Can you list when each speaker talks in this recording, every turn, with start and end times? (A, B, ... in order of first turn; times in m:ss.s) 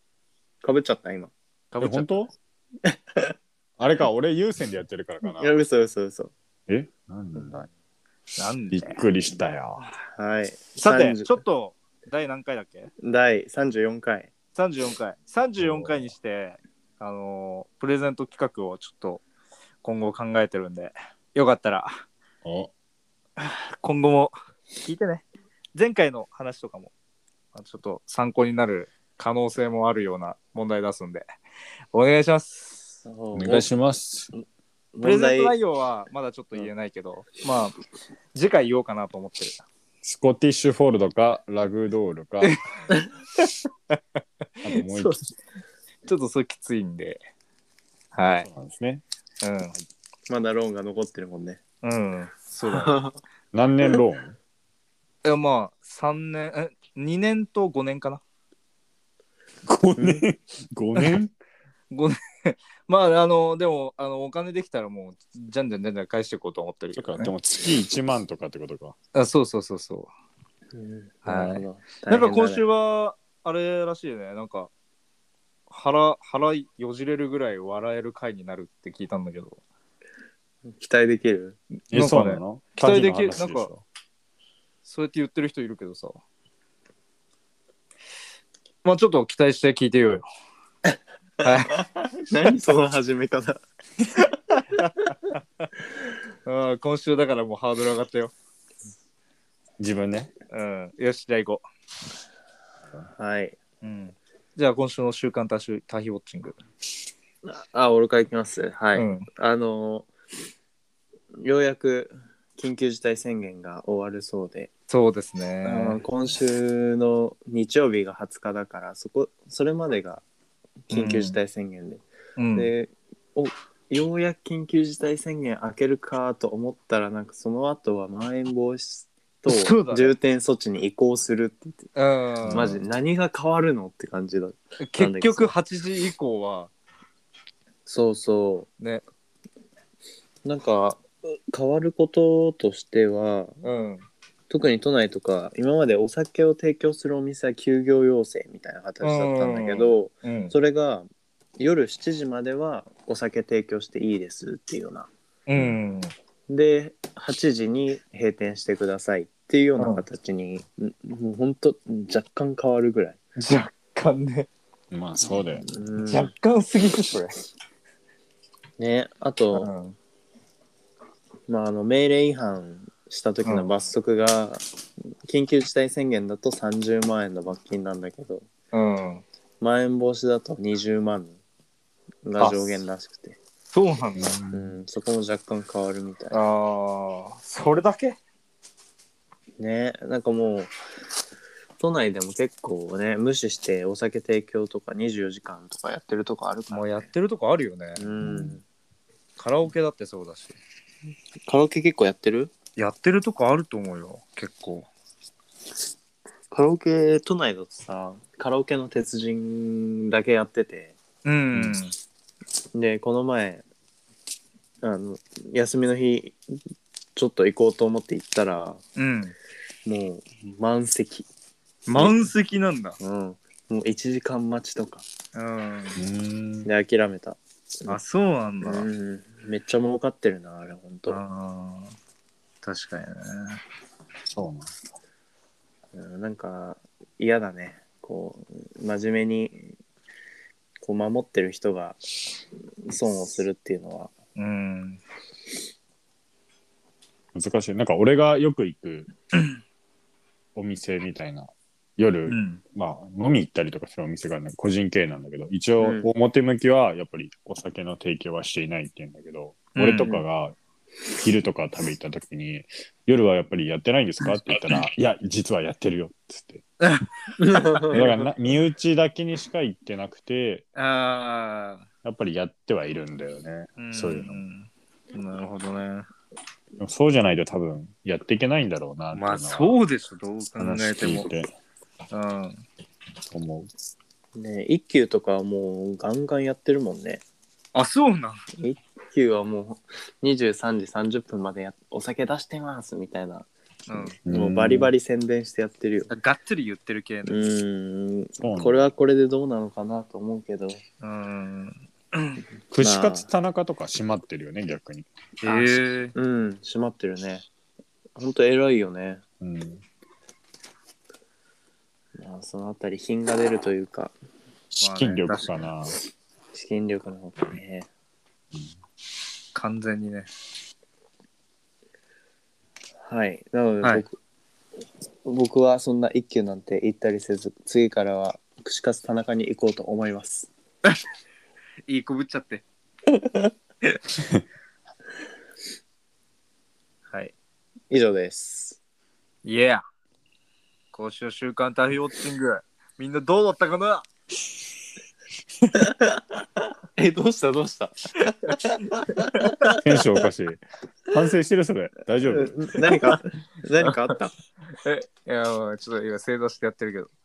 0:00.6-0:01.3 A
0:01.7-0:02.3 B
0:01.8-0:02.3 C
0:02.8-0:03.3 A
0:03.8-0:05.5 C
0:05.2-0:06.3 A
0:06.7-0:07.7 C
0:08.4-0:09.0 B
0:08.7-0:09.9 C
0:10.1-0:11.4 A
0:10.8-0:12.9 B
0:13.0-0:14.3 A
0:14.5-0:19.2 B
0:15.6-0:16.1 C
0:19.8-0:22.0 B
0:22.4-0:22.7 C
0:23.4-0:26.9 B
0:27.5-0:31.2 B
0:31.9-0:33.0 B
0:33.0-0:33.7 A
0:33.3-0:34.3 C
0:34.9-0:35.5 A
0:35.0-0:37.7 B
0:38.3-0:39.6 B
0:40.0-0:42.6 C
0:42.4-0:44.0 B
0:44.6-0:45.3 C
0:44.7-0:45.2 B
0:46.0-0:47.2 B
0:48.1-0:48.5 B
0:48.4-0:49.0 C
0:49.4-0:49.8 B
0:50.3-0:51.6 A
0:51.8-0:53.0 B
0:52.6-0:53.2 A
0:53.5-0:54.4 C
0:55.2-0:58.2 B
0:59.6-1:01.3 C
1:00.0-1:00.2 A
1:01.9-1:07.3 B
1:06.9-1:08.9 C
1:09.1-1:10.1 B
1:10.7-1:12.6 A
1:11.2-1:14.7 B
1:15.7-1:19.6 B
1:20.7-1:21.6 A
1:21.9-1:23.8 C
1:21.9-1:23.7 B
1:24.8-1:26.2 B
1:28.8-1:30.2 B
1:31.4-1:33.6 A
1:31.4-1:31.8 B
1:34.7-1:35.7 B
1:36.4-1:38.3 B
1:39.8-1:40.3 C
1:40.5-1:41.6 B
1:43.2-1:43.6 A
1:43.8-1:46.6 B
1:47.4-1:50.1 A
1:48.9-1:49.3 B
1:51.4-1:54.7 A
1:54.9-1:56.0 B
1:55.6-2:00.2 A
2:00.9-2:02.0 A
2:00.9-2:01.4 B
2:02.4-2:02.7 B
2:02.5-2:11.8 A
2:09.5-2:10.1 B
2:12.0-2:12.7 B
2:12.4-2:12.8 C
2:12.5-2:15.5 A
2:14.8-2:16.7 B
2:17.8-2:18.7 A
2:20.4-2:23.6 A
2:23.6-2:24.0 B
2:24.5-2:31.1 A
2:29.0-2:30.5 B
2:31.6-2:35.1 A
2:35.5-2:36.1 B
2:36.5-2:43.2 A
2:43.4-2:44.5 B
2:44.9-2:45.6 C
2:45.6-2:46.3 A
2:46.1-2:47.4 B
2:48.8-2:49.7 A
2:49.5-2:50.0 B
2:51.5-2:54.6 A
2:53.4-2:53.7 B
2:55.2-2:58.5 A
2:58.7-2:59.2 B
2:59.6-3:01.4 A
3:02.2-3:03.4 A
3:02.4-3:02.8 B
3:03.7-3:04.3 B
3:04.2-3:04.7 C
3:04.5-3:06.4 A
3:06.3-3:08.2 B
3:09.6-3:10.7 A
3:11.8-3:17.1 A
3:16.7-3:18.1 B
3:18.0-3:18.6 A
3:18.2-3:18.5 C
3:19.4-3:20.6 B
3:21.5-3:22.5 A
3:22.8-3:24.9 B
3:26.5-3:30.9 A
3:31.2-3:31.9 B
3:32.7-3:33.6 A
3:34.8-3:36.4 A
3:37.2-3:38.8 A
3:39.0-3:39.3 B
3:39.8-3:41.3 A
3:41.9-3:43.0 B
3:41.9-3:42.3 A
3:43.0-3:45.0 A
3:45.3-3:46.0 B
3:46.0-3:46.7 C
3:46.6-3:48.0 A
3:47.8-3:48.9 B
3:48.6-3:51.2 A
3:51.1-3:52.0 B
3:52.6-3:53.6 B
3:54.3-3:54.7 C
3:55.9-3:59.7 A
4:00.8-4:02.0 A
4:02.8-4:04.1 A
4:04.4-4:05.0 B
4:07.3-4:09.1 C
4:10.5-4:20.6 C
4:12.3-4:12.6 B
4:15.8-4:16.1 A
4:19.7-4:20.2 B
4:21.2-4:26.6 C
4:26.8-4:28.1 B
4:27.4-4:28.1 A
4:27.9-4:30.6 C
4:30.7-4:31.8 B
4:32.0-4:34.4 C
4:33.8-4:36.0 B
4:36.8-4:39.8 C
4:39.1-4:41.3 B
4:40.6-4:41.5 C
4:42.1-4:42.6 B
4:43.3-4:43.7 C
4:44.3-4:47.2 A
4:47.7-4:48.4 B
4:48.6-4:56.1 A
4:53.9-4:54.1 B
4:54.2-4:54.9 C
4:56.1-4:57.4 B
4:57.2-5:00.8 A
4:58.4-4:58.9 C
5:01.0-5:02.4 B
5:02.7-5:05.1 C
5:02.8-5:03.3 A
5:05.4-5:06.1 B
5:05.4-5:07.4 A
5:08.2-5:09.2 A
5:09.4-5:09.8 C
5:12.2-5:14.1 A
5:14.8-5:15.6 B
5:14.9-5:16.0 C
5:16.5-5:17.9 A
5:19.5-5:20.3 B
5:23.0-5:24.2 A
5:25.2-5:30.5 A
5:31.9-5:32.6 B
5:33.2-5:33.5 A
5:37.9-5:38.8 A
5:39.4-5:39.8 B
5:40.9-5:44.1 B
5:47.0-5:49.7 A
5:48.4-5:49.7 B
5:49.8-5:52.6 C
5:52.2-5:54.3 A
5:54.7-5:57.1 B